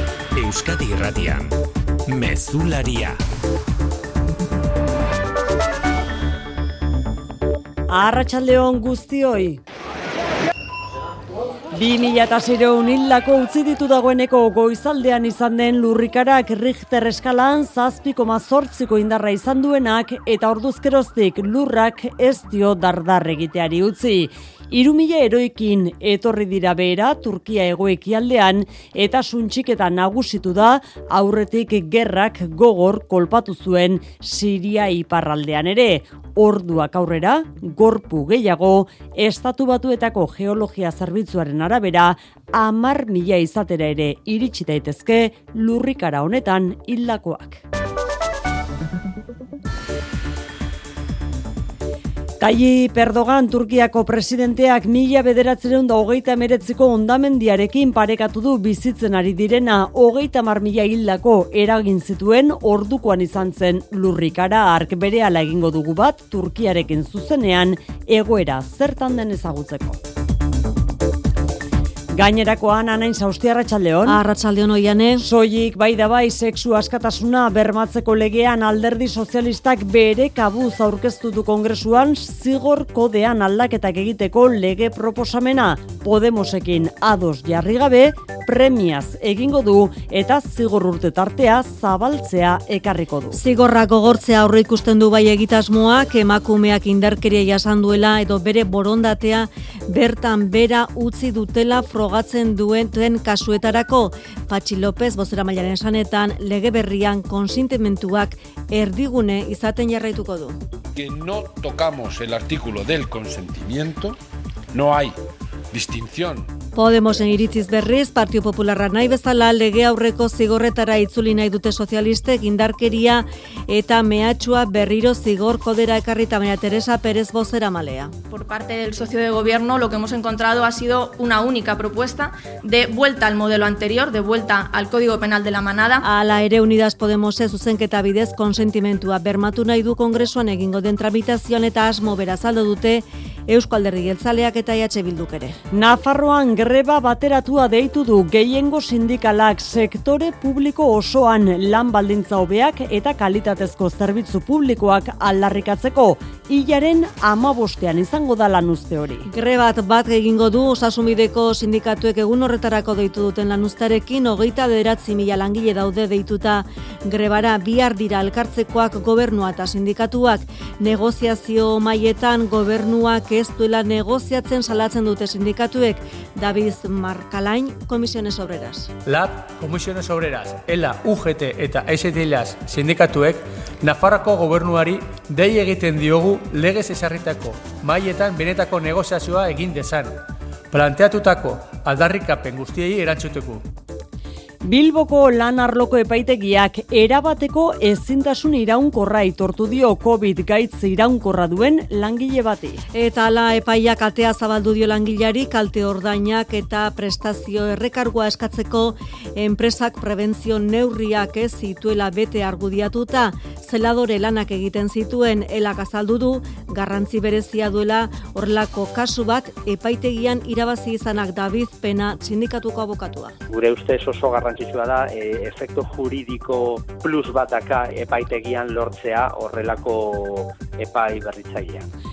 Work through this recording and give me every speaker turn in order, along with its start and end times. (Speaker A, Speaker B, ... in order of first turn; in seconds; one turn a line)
Speaker A: 0.3-3.2
Speaker B: 7.9-9.6
Speaker B: 11.7-47.6
Speaker B: 52.4-70.0
Speaker B: 72.1-74.2
Speaker C: 74.0-75.2
Speaker B: 75.2-93.4
Speaker C: 93.3-110.6
Speaker D: 110.9-114.2
Speaker D: 114.7-115.2
Speaker D: 115.7-116.5
Speaker C: 116.7-128.1
Speaker E: 128.3-136.0
Speaker C: 136.0-145.6
Speaker B: 145.7-159.3
Speaker C: 159.3-178.9
Speaker F: 179.1-190.2
Speaker F: 190.7-193.7
Speaker B: 194.6-202.8
Speaker C: 202.9-223.3
Speaker G: 223.5-231.8